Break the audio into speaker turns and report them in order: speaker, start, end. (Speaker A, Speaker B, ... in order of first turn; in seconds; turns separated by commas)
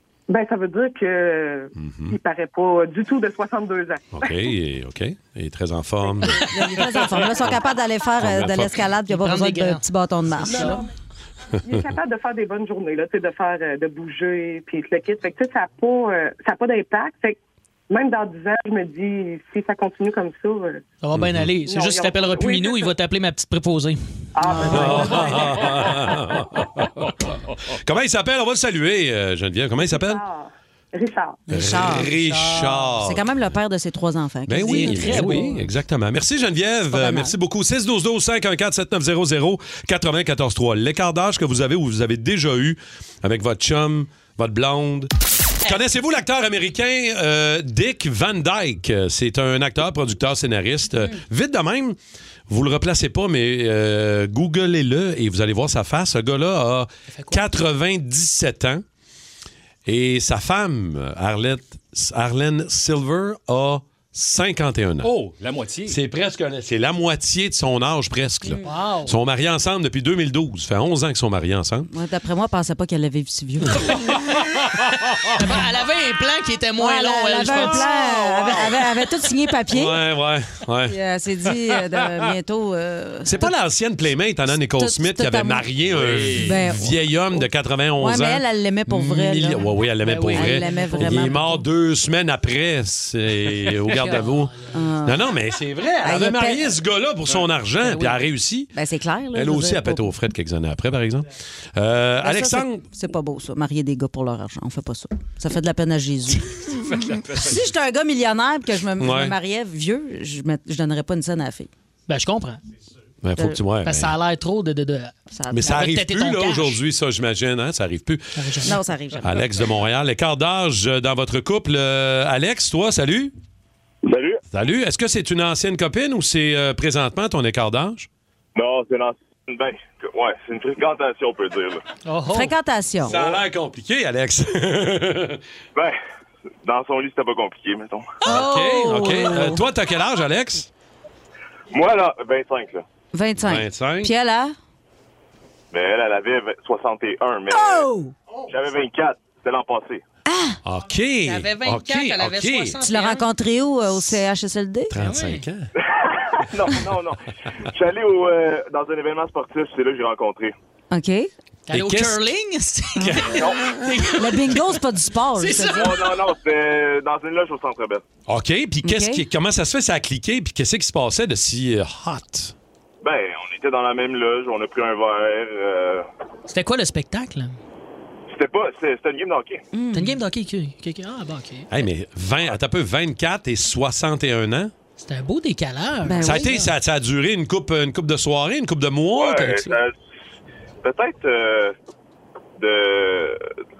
Speaker A: 0.3-4.4, Speaker B: 1.8-2.2, Speaker B: 4.1-6.5, Speaker C: 6.4-10.8, Speaker B: 7.3-7.6, Speaker B: 8.2-8.9, Speaker D: 9.1-9.8, Speaker D: 10.3-10.8, Speaker A: 10.5-10.8, Speaker A: 11.6-17.4, Speaker A: 17.9-20.8, Speaker D: 21.0-24.0, Speaker B: 21.1-21.5, Speaker A: 21.6-22.9, Speaker A: 24.3-26.2, Speaker C: 24.4-25.3, Speaker B: 24.6-26.9, Speaker E: 27.0-27.6, Speaker B: 27.8-30.2, Speaker A: 29.9-31.4, Speaker C: 31.5-32.1, Speaker B: 31.5-33.3, Speaker D: 32.1-32.9, Speaker C: 33.0-35.6, Speaker B: 34.5-45.1, Speaker D: 34.6-35.6, Speaker C: 36.9-37.3, Speaker B: 45.6-52.0, Speaker B: 52.5-58.8, Speaker D: 57.1-57.4, Speaker B: 59.9-65.1, Speaker E: 65.0-66.0, Speaker B: 65.9-71.9, Speaker D: 68.5-69.1, Speaker C: 71.9-74.0, Speaker D: 75.4-77.9, Speaker C: 76.8-80.0, Speaker B: 79.7-81.0, Speaker C: 80.8-83.5, Speaker B: 83.2-94.5, Speaker C: 84.5-85.7, Speaker E: 85.8-86.9, Speaker C: 86.4-86.9, Speaker C: 88.0-89.8, Speaker D: 90.0-91.6, Speaker C: 90.3-91.5, Speaker D: 93.9-94.7, Speaker C: 94.7-95.2, Speaker B: 95.0-98.7, Speaker C: 96.0-96.7, Speaker D: 97.8-98.2, Speaker C: 98.7-100.1, Speaker B: 99.3-102.8, Speaker C: 102.2-111.7, Speaker B: 109.0-109.3, Speaker D: 112.1-112.6, Speaker B: 113.2-114.2, Speaker C: 113.3-113.6, Speaker D: 113.8-116.8, Speaker C: 115.3-115.8, Speaker B: 115.5-118.7, Speaker D: 118.3-118.8, Speaker C: 118.6-119.4, Speaker B: 119.2-123.3, Speaker F: 124.1-124.4, Speaker B: 124.5-128.1, Speaker F: 128.6-131.8, Speaker D: 132.0-132.5, Speaker C: 132.3-133.1, Speaker B: 133.0-135.4, Speaker F: 133.1-133.4, Speaker F: 136.6-138.1, Speaker C: 138.2-139.6, Speaker B: 138.2-140.7, Speaker F: 141.7-142.8, Speaker C: 143.1-144.5, Speaker B: 143.4-144.1, Speaker F: 145.7-147.9, Speaker C: 147.5-148.1, Speaker F: 148.5-150.0, Speaker C: 150.2-150.6, Speaker B: 150.6-152.8, Speaker D: 151.2-153.2, Speaker C: 152.8-154.9, Speaker B: 154.9-155.7, Speaker D: 155.0-155.4, Speaker F: 155.8-160.5, Speaker C: 160.9-161.3, Speaker D: 161.7-164.6, Speaker B: 161.7-162.2, Speaker B: 163.0-163.4, Speaker F: 163.3-163.6, Speaker C: 164.2-166.0, Speaker D: 165.3-166.0, Speaker F: 165.6-168.0, Speaker B: 168.3-172.5, Speaker C: 168.8-169.2, Speaker F: 173.0-176.1, Speaker D: 176.5-177.6, Speaker F: 178.3-179.6, Speaker C: 179.7-180.2, Speaker D: 179.9-181.7, Speaker B: 181.7-184.7, Speaker D: 185.0-186.7, Speaker C: 186.0-186.6, Speaker B: 186.2-189.8, Speaker F: 189.1-189.9, Speaker F: 190.8-191.7, Speaker F: 192.6-193.4